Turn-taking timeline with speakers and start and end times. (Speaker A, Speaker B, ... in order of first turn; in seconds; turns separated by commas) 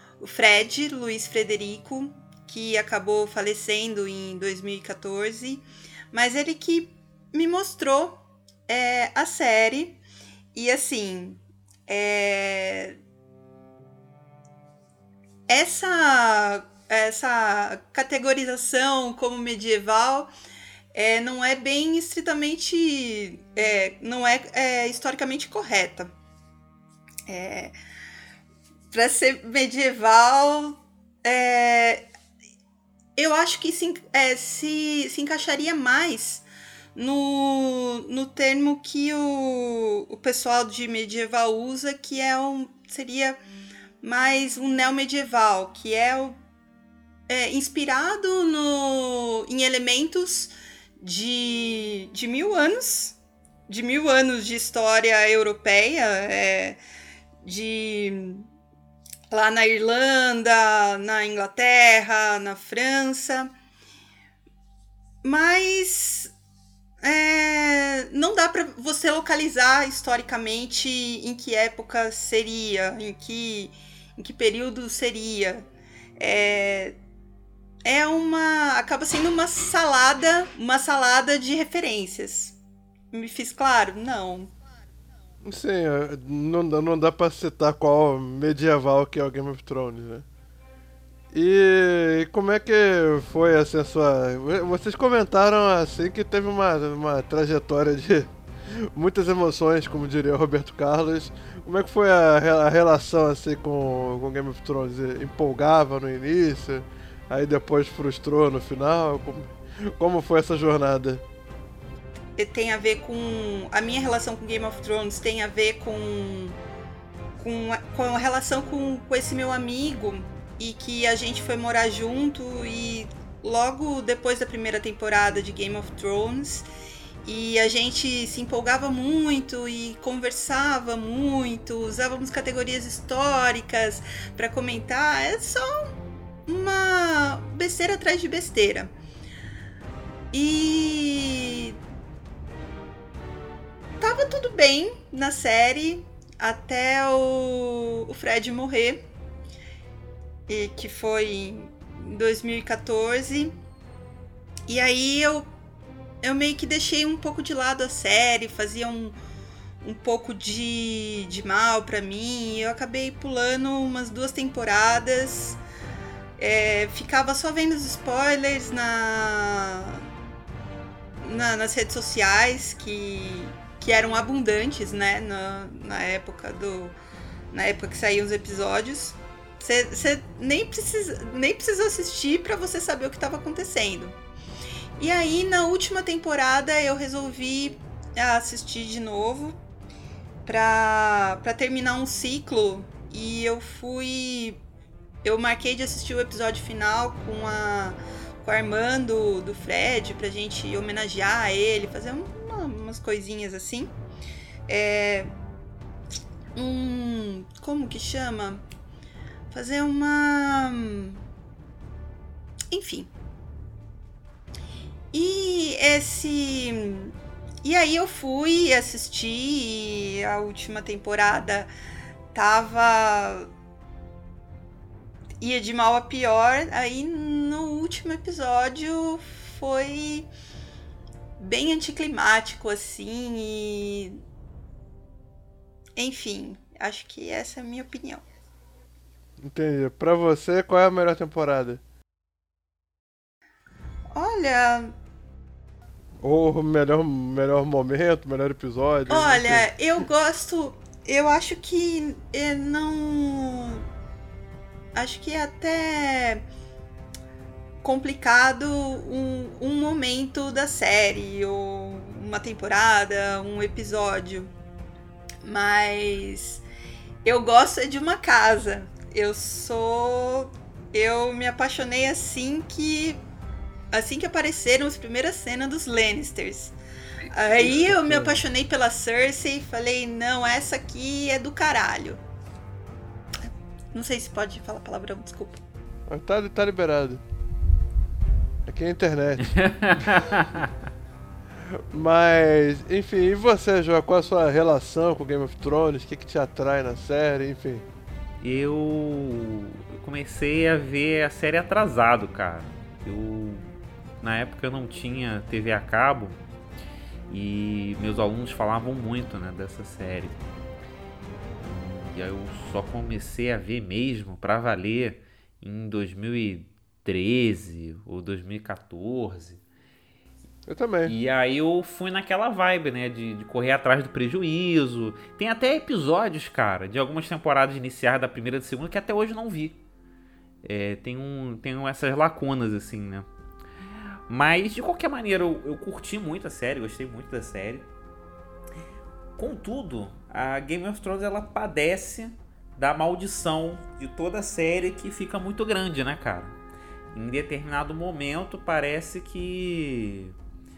Speaker A: 0.2-10.0, Speaker A: 10.5-13.0, Speaker A: 15.5-20.3, Speaker A: 20.9-26.1, Speaker A: 27.3-27.7, Speaker A: 28.9-32.0, Speaker A: 33.1-43.4, Speaker A: 44.0-46.4, Speaker A: 47.3-56.8, Speaker A: 57.4-58.5, Speaker A: 59.3-63.5, Speaker A: 65.2-66.3, Speaker A: 67.0-75.7, Speaker A: 76.2-77.0, Speaker A: 77.8-82.5, Speaker A: 83.1-84.5, Speaker B: 85.4-90.2, Speaker B: 91.3-111.2, Speaker A: 112.4-116.6, Speaker A: 117.4-126.7, Speaker A: 127.2-135.8, Speaker A: 136.5-138.9, Speaker A: 140.3-141.8, Speaker A: 144.0-149.1, Speaker A: 150.5-153.6, Speaker A: 154.7-155.5, Speaker A: 156.2-159.2, Speaker A: 159.8-165.6, Speaker A: 166.4-170.1, Speaker A: 171.2-176.9, Speaker A: 177.5-184.2, Speaker A: 185.0-189.6, Speaker A: 190.4-194.6, Speaker A: 195.2-203.9, Speaker A: 204.7-205.3, Speaker A: 206.6-208.6, Speaker A: 209.5-211.2, Speaker A: 212.7-213.1, Speaker A: 215.1-221.7, Speaker A: 222.3-223.5, Speaker A: 225.4-230.3, Speaker A: 231.4-234.2, Speaker A: 235.9-238.2, Speaker B: 239.4-241.8, Speaker A: 244.1-244.9, Speaker B: 246.2-249.7, Speaker A: 249.1-253.8, Speaker A: 254.9-256.4, Speaker A: 257.8-264.5, Speaker A: 265.4-266.6, Speaker A: 267.2-273.2, Speaker A: 273.9-276.7, Speaker A: 277.3-282.2, Speaker B: 277.5-278.4, Speaker A: 283.9-285.6, Speaker B: 286.1-287.2, Speaker B: 288.6-289.5, Speaker C: 289.5-290.7, Speaker B: 291.9-297.9, Speaker C: 298.4-306.4, Speaker C: 307.3-310.4, Speaker C: 311.6-319.6, Speaker B: 320.7-321.1, Speaker C: 321.1-329.8, Speaker C: 330.6-333.2, Speaker C: 334.3-337.9, Speaker C: 339.4-346.5, Speaker C: 347.1-350.3